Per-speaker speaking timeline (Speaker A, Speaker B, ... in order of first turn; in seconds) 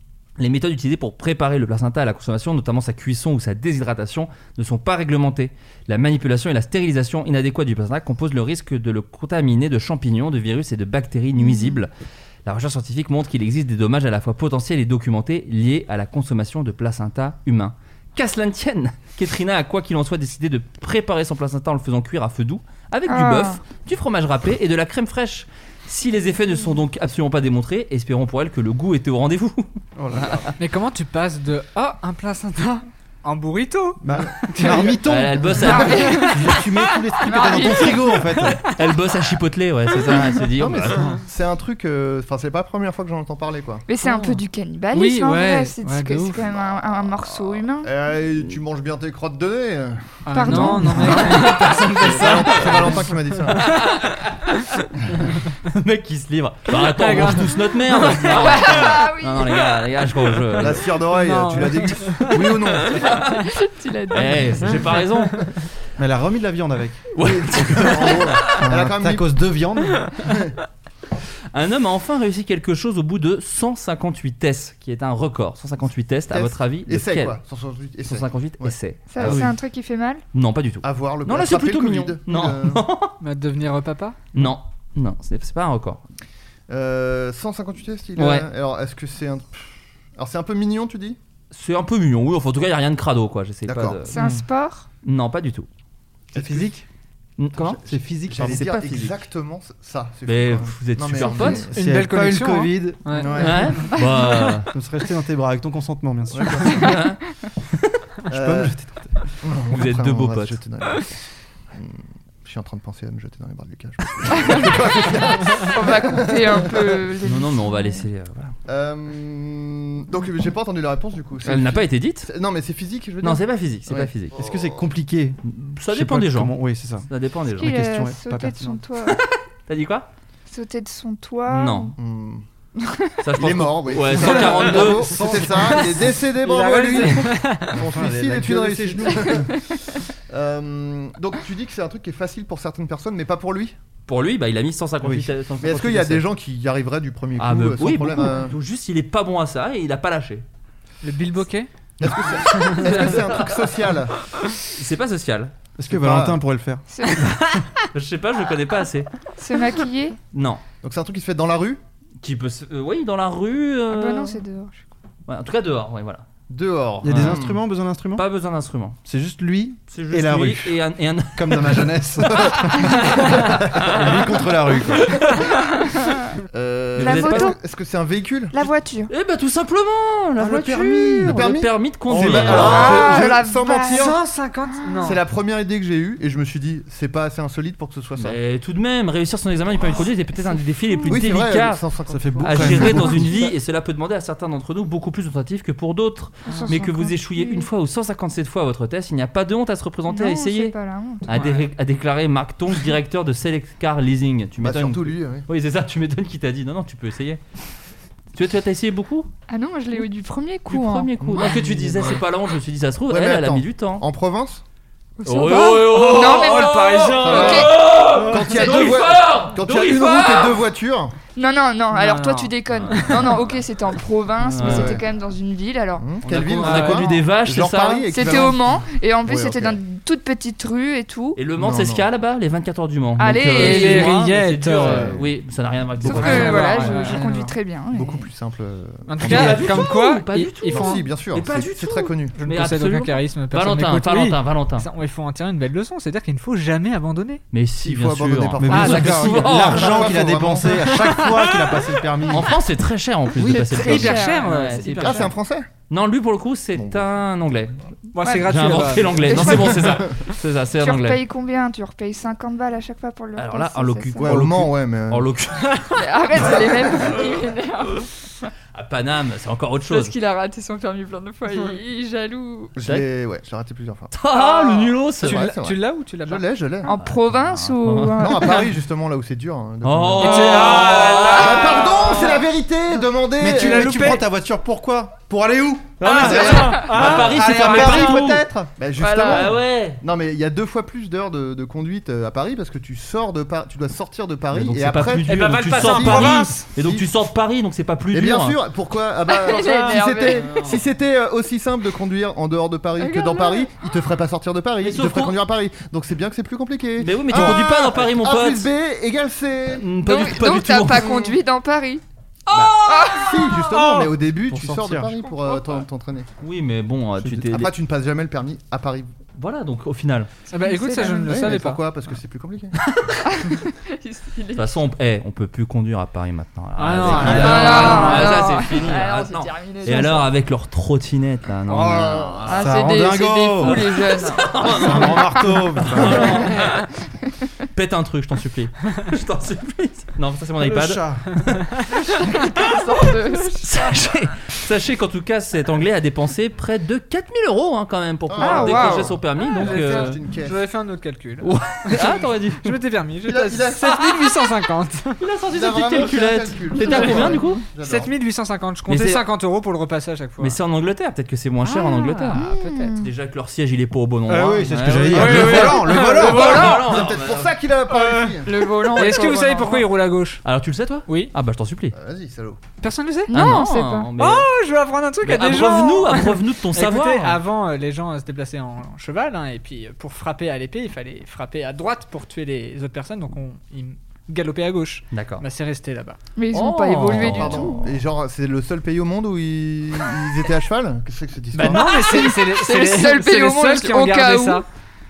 Speaker A: 0.4-11.9, 12.4-30.5, 35.0-36.3, 38.6-41.2, 53.5-54.9, 55.7-60.9, 62.9-63.4, 64.1-65.5, 67.1-68.6, 71.5-77.4, 78.0-79.5, 80.3-83.2, 84.3-86.0, 88.2-88.5, 91.5-94.2, 95.0-95.7, 97.4-99.2, 100.2-101.7, 103.4-104.7, 106.7-107.2, 109.7-110.6, 117.2-118.5, 121.4-122.3, 123.2-124.3, 125.4-127.8, 129.7-130.1, 131.5-131.9, 133.2-135.2, 144.1-146.3, 147.4-150.4, 152.7-153.7, 154.7-155.5, 157.9-159.1, 160.3-160.6, 162.2-164.4, 165.3-166.2, 167.0-167.5, 168.2-169.0, 169.9-171.9, 172.4-174.1, 175.1-175.4, 176.9-177.5, 179.1-183.2, 188.2-191.8, 192.4-200.7, 201.2-207.4, 208.3-209.3, 210.7-214.0, 215.2-220.6, 222.7-223.3, 224.4-225.0, 226.2-228.5, 231.3-237.0, 239.2-244.8, 247.5-250.2, 252.3-255.3, 255.9-261.2, 263.4-265.8, 268.7-270.2, 274.1-275.4, 276.9-278.6, 279.8-282.2, 286.0-288.4, 289.2-290.0, 294.5-298.6, 300.2-300.8, 304.8-305.4, 307.0-308.7, 309.7-311.2, 312.5-313.2, 316.4-317.7, 319.4-320.3, 322.8-323.2, 324.5-332.6, 333.6-336.9, 337.7-341.4, 343.5-350.1, 351.4-352.8, 353.8-354.1, 355.2-357.6, 358.9-359.2, 360.4-367.5, 370.4-371.9, 373.3-374.5, 375.2-377.4, 385.1-385.4, 386.5-387.8
Speaker B: 11.4-11.8, 23.1-23.6, 35.6-36.6, 37.2-38.2, 43.9-47.9, 50.3-51.6, 58.2-59.8, 63.2-65.0, 79.1-80.2, 94.1-94.8, 114.4-114.7, 115.6-118.0, 127.5-129.2, 130.5-131.9, 132.8-133.2, 156.9-157.3, 159.4-160.2, 163.9-164.9, 175.6-176.2, 177.0-177.6, 178.5-179.1, 182.5-184.1, 190.5-191.1, 196.4-197.7, 200.1-201.5, 209.5-211.4, 215.2-217.8, 218.5-218.9, 221.3-226.1, 228.1-231.4, 233.2-234.2, 236.0-238.3, 253.4-255.0, 258.2-260.1, 260.8-264.3, 265.9-268.5, 269.9-272.8, 276.8-278.7, 281.2-282.1, 289.0-289.5, 299.3-300.6, 303.0-303.7, 310.0-312.0, 312.7-313.4, 315.2-315.8, 320.6-321.5, 323.2-324.8, 327.2-330.3, 332.5-335.2, 342.1-343.9, 348.4-349.1, 361.6-363.1, 368.4-369.9, 373.3-374.1, 386.4-387.9, 391.7-394.6
Speaker C: 29.9-30.5, 34.0-38.6, 50.9-51.2, 66.0-70.1, 79.2-79.5, 94.2-94.4, 96.3-96.8, 97.8-98.7, 101.7-103.1, 104.7-106.9, 108.3-109.2, 124.3-127.1, 127.6-128.8, 137.7-139.5, 145.0-145.3, 155.8-157.4, 167.0-168.2, 169.0-170.8, 171.3-175.2, 180.4-181.3, 182.1-183.2, 192.1-193.3, 248.6-252.6, 283.4-288.7, 314.4-315.2, 327.0-328.0, 332.4-333.9, 334.6-336.4, 340.6-341.5, 364.3-366.8
Speaker D: 30.6-35.0, 36.0-36.5, 44.9-46.5, 50.2-53.0, 56.7-58.6, 61.1-62.6, 83.2-84.2, 101.7-103.7, 134.4-137.8, 151.0-151.7, 183.9-185.2, 215.8-217.6, 221.9-223.2, 226.6-227.1, 233.3-235.2, 236.1-237.5, 239.1-241.1, 242.3-247.4, 248.8-249.2, 250.8-251.7, 253.5-255.3, 258.1-259.3, 275.2-276.4, 280.2-282.4, 283.5-284.2, 286.0-288.1, 295.2-296.6, 299.5-300.0, 313.7-314.1, 320.5-321.8, 326.8-328.3, 349.4-355.2, 356.9-360.6, 362.3-362.9, 365.0-367.0, 367.9-370.4, 371.1-371.3, 372.8-373.3, 374.2-386.2, 391.5-394.6
Speaker E: 40.6-43.8, 47.8-53.7, 60.6-63.3, 67.9-69.4, 70.2-70.5, 76.3-79.5, 80.8-82.8, 86.7-91.2, 93.7-94.0, 96.3-96.7, 97.5-101.8, 103.1-103.9, 106.3-106.7, 108.3-108.8, 109.4-111.2, 111.7-117.0, 118.7-124.8, 132.0-132.4, 133.3-143.8, 145.6-148.6, 152.0-154.1, 155.9-156.4, 160.8-161.8, 166.5-167.6, 172.2-174.2, 176.5-178.6, 180.5-184.2, 185.0-188.4, 191.1-193.4, 204.6-205.4, 211.2-212.2, 213.1-214.6, 217.2-221.1, 224.5-225.0, 226.0-229.8, 231.6-232.1, 234.7-235.3, 236.0-237.2, 237.9-239.9, 240.7-242.4, 247.8-251.2, 255.0-255.7, 256.8-257.1, 259.3-259.9, 264.2-265.3, 272.8-274.1, 275.2-276.9, 278.2-284.1, 288.8-297.1, 298.1-309.9, 310.9-311.4, 312.5-316.3, 317.2-319.1, 321.3-322.7, 331.7-332.6, 348.3-350.6, 353.2-354.0, 355.5-358.1, 366.2-368.6, 371.9-372.6, 386.7-392.2